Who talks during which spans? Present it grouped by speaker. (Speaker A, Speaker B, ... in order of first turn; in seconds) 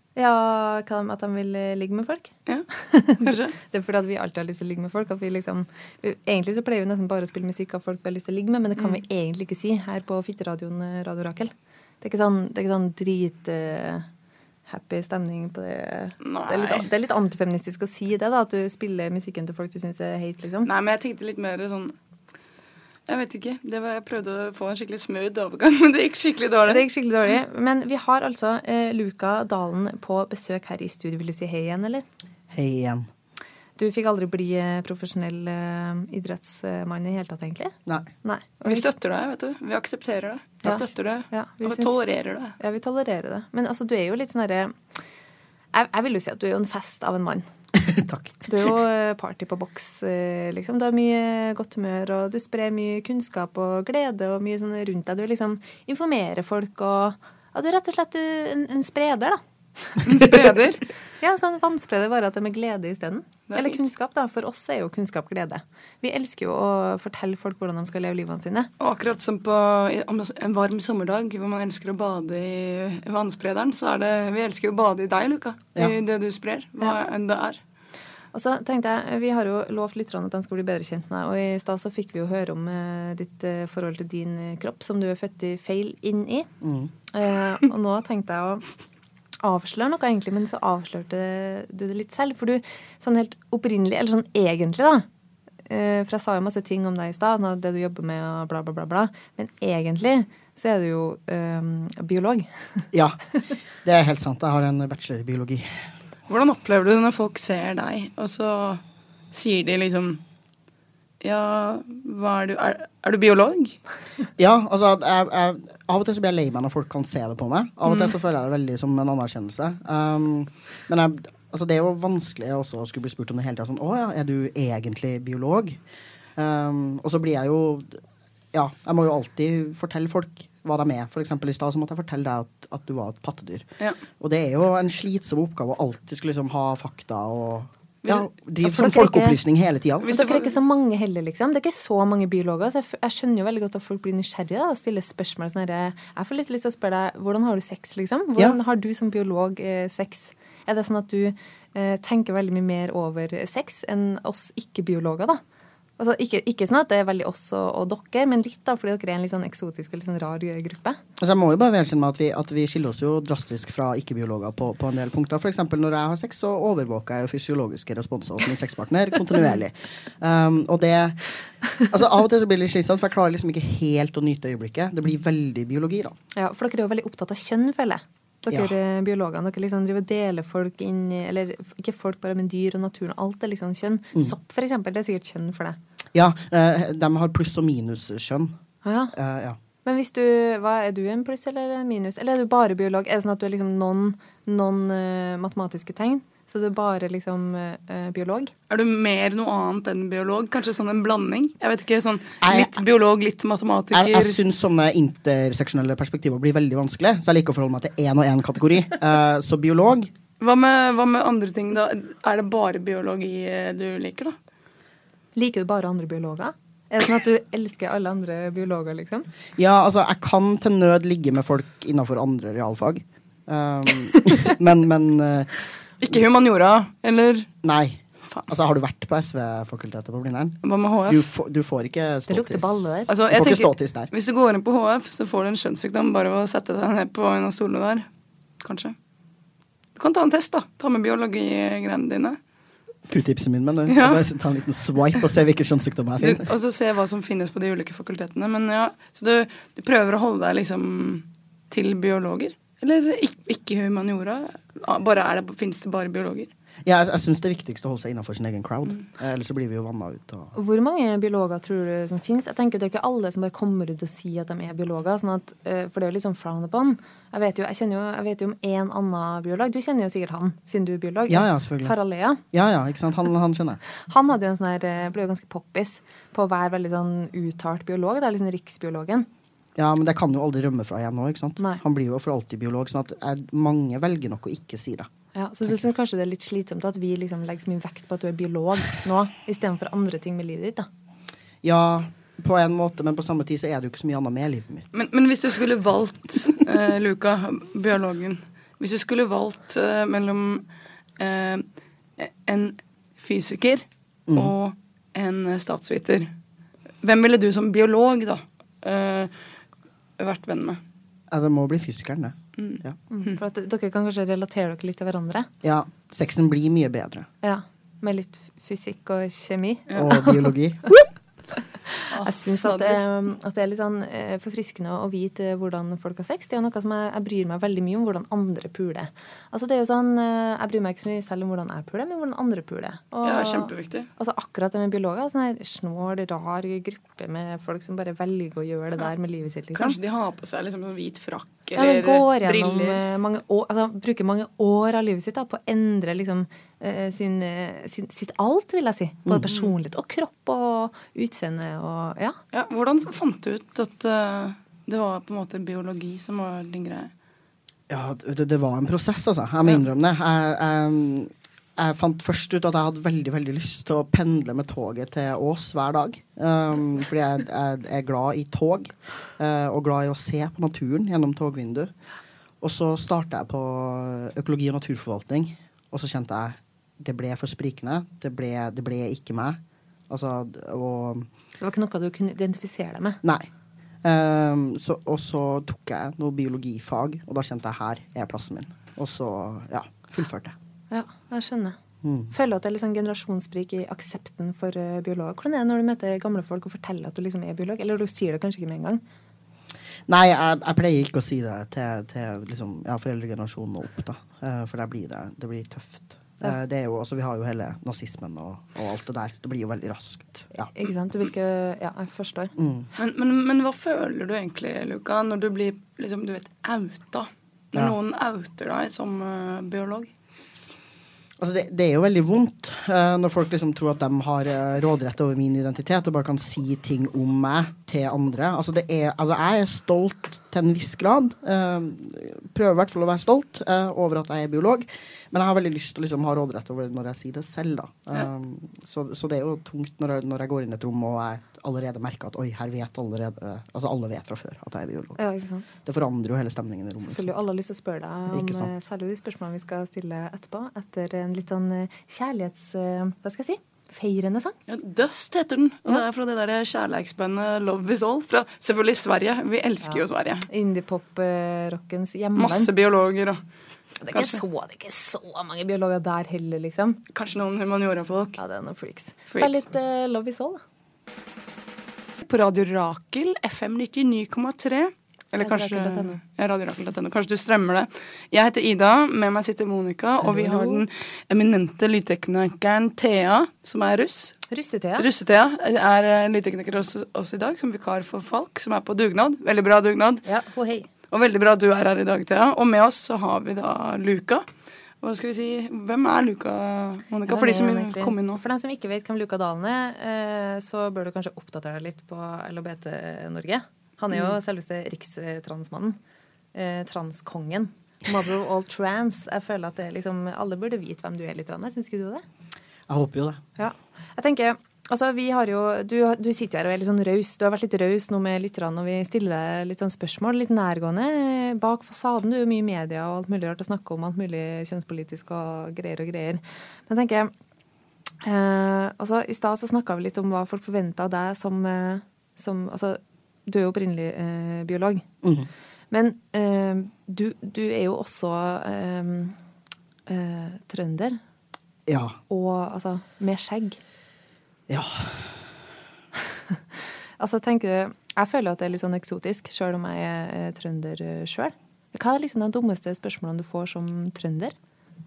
Speaker A: 0.1-14.1, 14.7-20.7, 26.7-32.0, 33.8-38.9, 40.6-42.0, 42.6-44.8, 45.7-47.4, 48.5-60.5, 61.2-68.7, 78.3-86.5, 87.1-88.7, 89.4-95.0, 95.7-102.8, 138.6-139.4, 140.1-155.4, 156.0-161.0, 176.3-185.8, 188.8-189.1, 189.8-198.5, 215.3-219.3, 232.3-233.1, 260.5-272.4, 274.0-279.3, 285.3-290.9, 313.1-315.5, 317.4-340.0, 341.8-352.4, 381.6-383.2, 390.9-391.8, 392.3-399.0, 410.7-412.5, 445.2-445.7, 447.0-454.5, 459.8-462.7, 464.0-467.0, 468.4-470.6, 475.4-476.1, 480.2-480.8, 484.5-485.1, 490.2-490.9, 497.3-506.0, 506.5-512.2, 513.6-527.3, 528.2-535.0, 535.9-539.4, 540.1-541.2, 542.3-543.8, 547.2-554.5
Speaker B: 3.2-3.5, 16.2-16.9, 20.6-21.9, 23.1-26.9, 38.6-42.5, 60.0-60.8, 63.5-63.8, 68.8-77.6, 106.3-108.8, 109.3-110.2, 111.2-113.8, 140.0-140.5, 198.7-204.4, 210.4-214.4, 226.0-227.5, 230.6-231.2, 233.1-238.1, 238.6-238.9, 239.9-242.4, 243.9-244.2, 246.2-256.5, 294.9-300.6, 301.2-301.6, 302.2-306.3, 307.0-309.3, 310.2-310.8, 312.6-313.4, 322.1-323.0, 333.2-334.1, 339.8-343.0, 352.5-357.1, 412.9-420.1, 454.7-460.5, 462.4-463.4, 464.1-464.4, 467.1-468.4, 472.2-484.4, 485.0-490.2, 491.1-494.4, 495.0-498.4
Speaker C: 32.5-33.1, 47.8-48.4, 86.6-86.9, 102.9-103.2, 103.8-105.8, 114.4-125.8, 126.3-128.0, 128.5-133.7, 134.2-140.1, 161.2-176.2, 186.1-188.6, 189.1-189.6, 202.4-202.8, 203.9-210.1, 219.6-226.1, 227.6-234.1, 243.1-246.5, 256.8-260.5, 271.3-271.9, 272.5-273.8, 279.8-285.1, 291.6-294.9, 311.3-312.9, 315.6-317.3, 319.9-320.9, 357.9-371.9, 372.6-381.3, 383.2-383.5, 384.0-390.5, 392.0-392.3, 400.1-410.7, 412.6-412.9, 421.4-445.2, 445.8-447.3, 448.3-448.7, 512.9-513.4, 535.2-535.5, 541.9-542.2, 544.7-545.4